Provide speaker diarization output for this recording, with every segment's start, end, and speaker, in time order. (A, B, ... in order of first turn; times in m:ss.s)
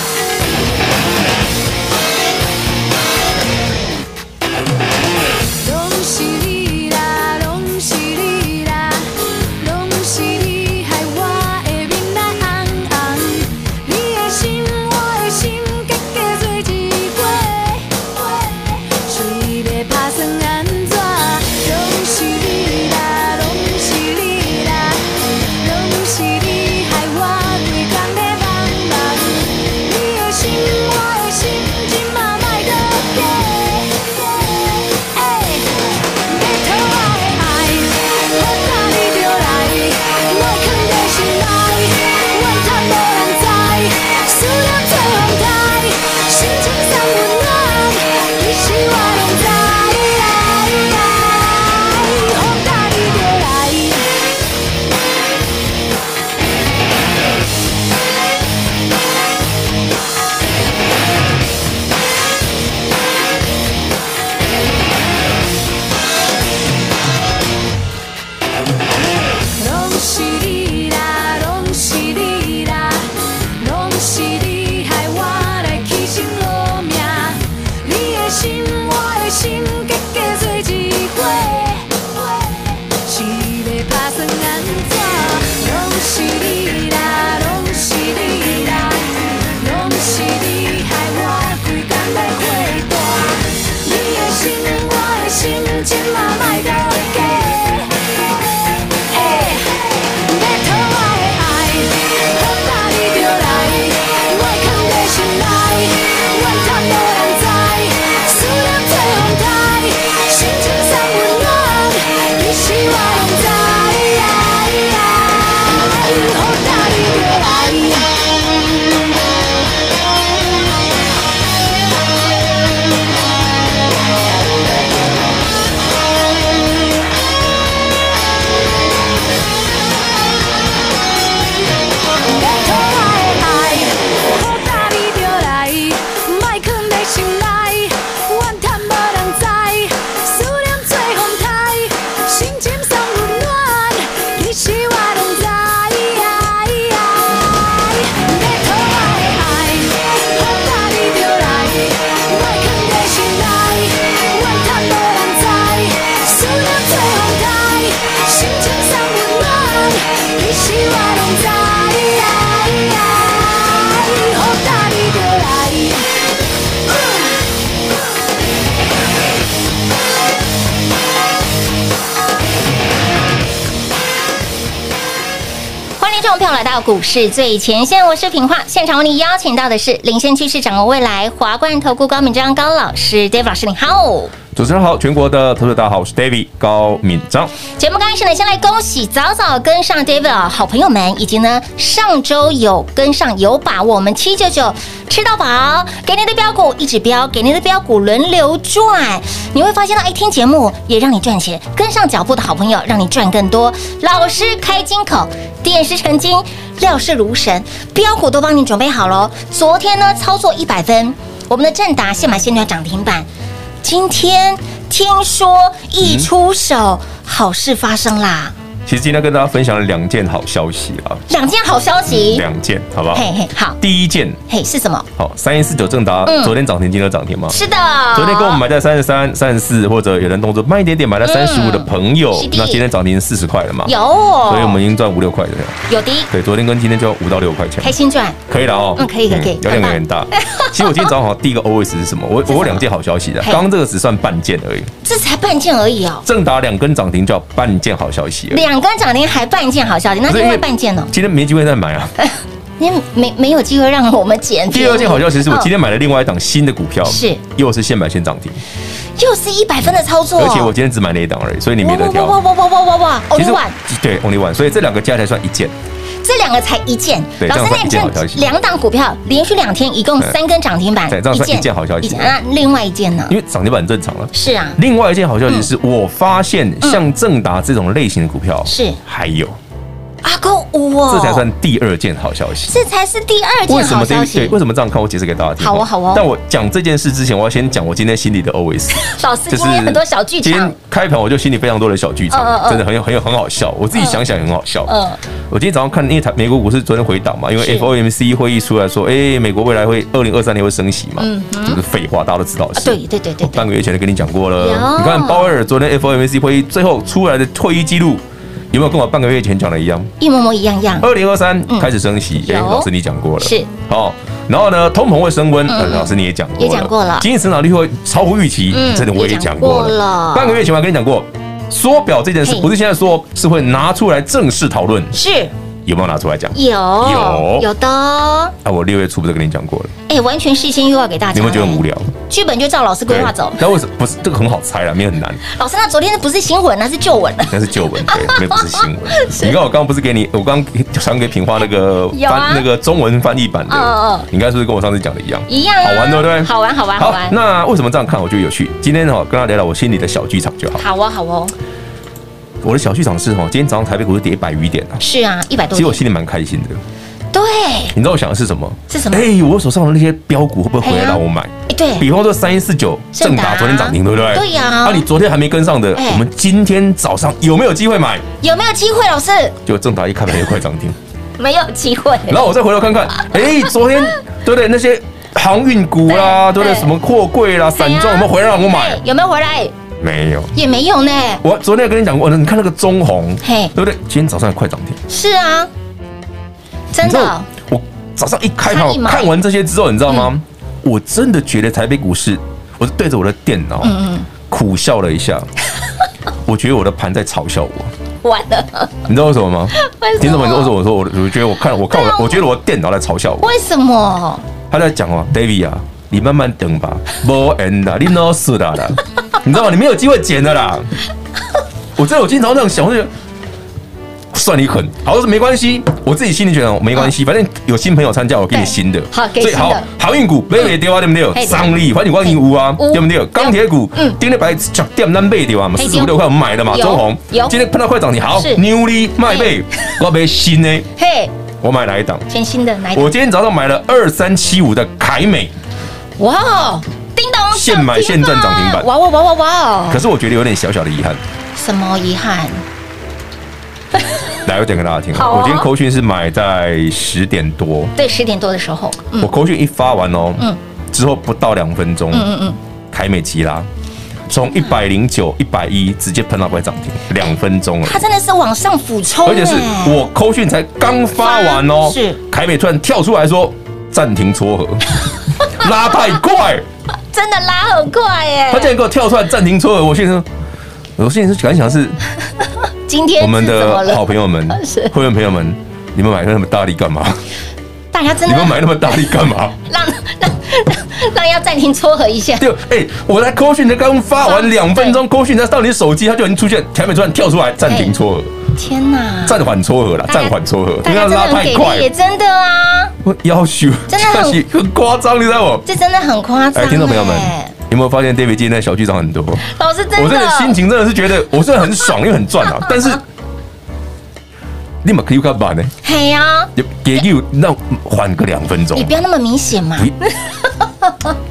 0:05.6-0:25.1 A
0:25.6-0:54.1 A
1:09.4-1:38.0 A
1:39.1-1:58.2 A
2:12.3-2:46.1 A
2:56.0-3:04.3 B
3:04.6-3:07.5 C
3:07.8-3:33.3 B
3:33.8-3:38.6 B
3:36.0-3:36.3 C
3:38.9-3:41.2 C
3:41.3-3:42.4 B
3:42.1-3:43.3 C
3:43.1-3:43.8 B
3:43.8-3:44.4 C
3:44.5-3:45.1 B
3:45.2-3:47.6 C
3:46.2-3:46.6 B
3:47.5-3:48.6 B
3:48.1-3:53.9 C
3:51.2-3:52.8 B
3:53.8-3:54.8 B
3:54.5-3:57.9 C
3:55.9-3:56.3 B
3:57.8-3:58.4 B
3:58.5-4:04.9 C
3:59.0-4:01.1 B
4:02.5-4:02.9 B
4:05.0-4:06.2 B
4:06.2-4:08.6 C
4:08.5-4:11.1 B
4:10.3-4:12.2 C
4:12.2-4:15.7 B
4:14.7-4:18.6 C
4:17.1-4:17.4 B
4:19.2-4:20.7 B
4:20.4-4:22.4 C
4:21.8-4:23.8 B
4:23.4-4:25.7 C
4:26.2-4:33.4 B
4:27.4-4:28.5 C
4:31.1-4:32.4 C
4:33.3-4:39.6 C
4:34.3-4:34.8 B
4:38.7-4:39.0 B
4:40.2-4:41.5 B
4:41.1-4:42.8 C
4:42.7-4:44.6 B
4:43.7-4:54.9 C
4:45.6-4:46.3 B
4:48.9-4:50.8 B
4:52.3-4:52.8 B
4:54.0-4:54.2 B
4:54.9-4:55.2 B
4:55.5-5:10.1 C
4:57.6-4:57.9 B
5:01.2-5:01.8 B
5:02.8-5:03.7 B
5:04.6-5:05.5 B
5:10.2-5:11.1 B
5:11.0-5:25.2 C
5:11.7-5:13.7 B
5:15.7-5:17.3 B
5:18.7-5:20.6 B
5:22.4-5:22.7 B
5:25.1-5:25.5 B
5:25.9-5:27.7 C
5:26.5-5:28.5 B
5:28.6-5:29.9 C
5:30.1-5:33.6 B
5:31.3-5:32.1 C
5:33.1-5:35.4 C
5:35.5-5:39.6 B
5:37.5-5:50.8 C
5:42.1-5:42.6 B
5:43.7-5:44.3 B
5:45.5-5:47.4 B
5:50.8-5:51.5 B
5:52.6-5:55.0 C
5:55.0-5:56.0 B
5:55.7-5:56.8 C
5:57.3-5:58.0 B
5:57.9-6:08.2 C
5:58.9-5:59.3 B
6:00.8-6:02.1 B
6:03.1-6:05.0 B
6:06.0-6:06.2 B
6:08.4-6:09.6 B
6:09.7-6:11.0 C
6:11.4-6:12.4 B
6:12.3-6:19.0 C
6:13.1-6:13.7 B
6:16.1-6:16.9 B
6:17.8-6:19.7 B
6:20.0-6:20.6 C
6:20.6-6:21.4 B
6:21.4-6:25.0 C
6:23.4-6:23.7 B
6:25.1-6:25.7 B
6:26.9-6:27.5 B
6:27.0-6:35.5 C
6:28.6-6:29.3 B
6:33.8-6:34.3 B
6:36.4-6:37.9 C
6:38.2-6:39.0 B
6:39.1-6:43.5 C
6:39.7-6:40.7 B
6:41.9-6:42.4 B
6:43.4-6:44.4 B
6:44.7-6:50.9 C
6:52.0-6:53.1 C
6:54.3-7:10.9 C
6:58.5-6:59.9 B
7:01.3-7:04.2 B
7:05.8-7:07.6 B
7:08.3-7:08.6 B
7:09.3-7:09.5 B
7:11.0-7:11.3 B
7:11.6-7:12.3 C
7:12.3-7:13.2 B
7:12.9-7:15.5 C
7:16.2-7:20.0 B
7:17.5-7:18.9 C
7:19.9-7:21.2 C
7:21.6-7:22.6 B
7:24.4-7:27.9 C
7:25.1-7:25.7 B
7:28.0-7:29.3 B
7:29.2-7:32.3 C
7:32.1-7:32.6 B
7:32.9-7:33.7 C
7:34.3-7:38.0 C
7:37.8-7:40.1 B
7:39.3-7:45.0 C
7:41.2-7:42.2 B
7:45.5-7:46.7 C
7:47.1-7:48.8 B
7:48.5-7:50.3 C
7:51.0-7:52.0 C
7:52.9-7:54.9 B
7:53.2-7:57.2 C
7:57.9-7:59.0 B
7:58.2-7:59.6 C
7:59.7-8:02.5 B
8:02.4-8:08.3 C
8:04.2-8:05.0 B
8:07.7-8:08.0 B
8:08.6-8:09.4 B
8:09.3-8:11.9 C
8:10.1-8:13.0 B
8:13.0-8:15.7 C
8:13.9-8:14.4 B
8:15.7-8:17.5 B
8:16.5-8:23.0 C
8:19.4-8:20.6 B
8:24.8-8:25.7 C
8:25.8-8:26.5 B
8:26.6-8:29.0 C
8:28.7-8:31.1 B